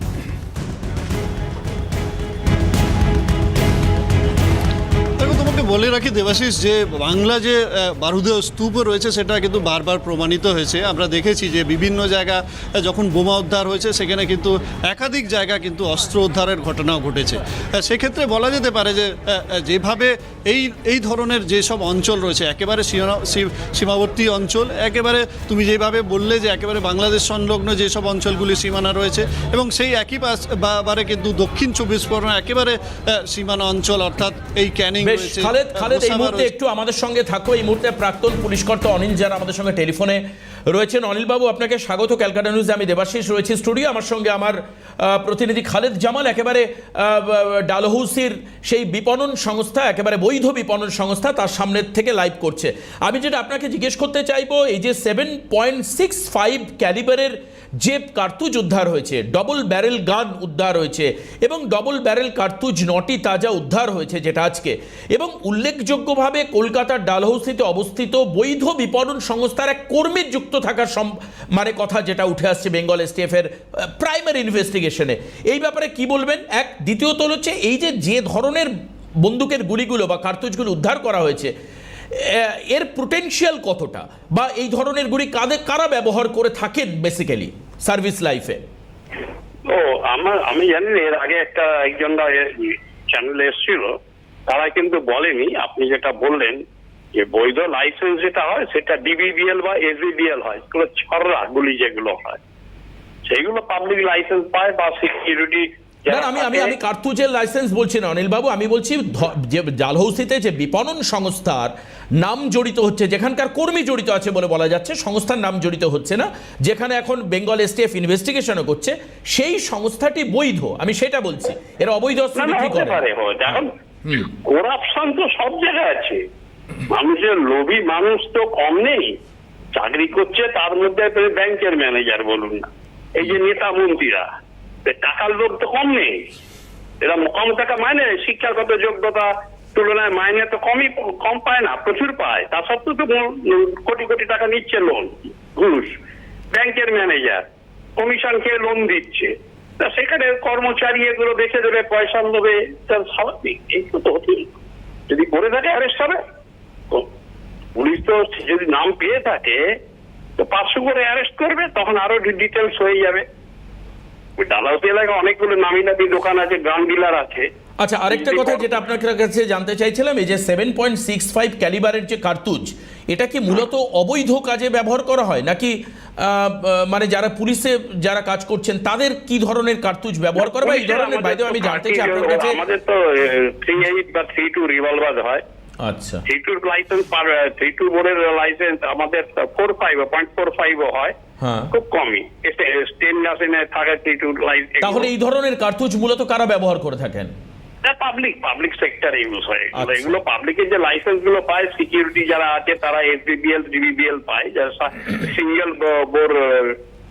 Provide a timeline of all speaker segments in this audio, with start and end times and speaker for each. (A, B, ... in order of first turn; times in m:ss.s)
0:05.2-0:36.5 A
0:35.0-1:21.5 B
1:22.1-1:28.6 B
1:29.7-1:33.9 C
1:34.5-1:36.6 C
1:37.2-1:42.4 C
1:43.3-1:46.8 C
1:46.1-2:04.3 B
2:02.4-2:03.7 C
2:04.2-2:06.2 C
2:06.9-2:09.2 C
2:09.7-2:14.3 C
2:14.8-2:16.2 C
2:17.0-2:25.9 C
2:26.5-2:27.4 C
2:28.0-2:34.6 C
2:35.1-2:36.2 C
2:37.8-2:39.6 C
2:40.4-2:43.2 C
2:44.4-2:47.4 C
2:47.8-3:02.6 B
2:48.1-2:48.8 C
3:00.4-3:05.4 C
3:05.8-3:06.2 B
3:06.2-3:11.2 C
3:11.4-3:11.7 B
3:11.7-3:15.1 C
3:14.8-3:17.3 B
3:17.8-3:26.8 C
3:19.8-3:20.1 B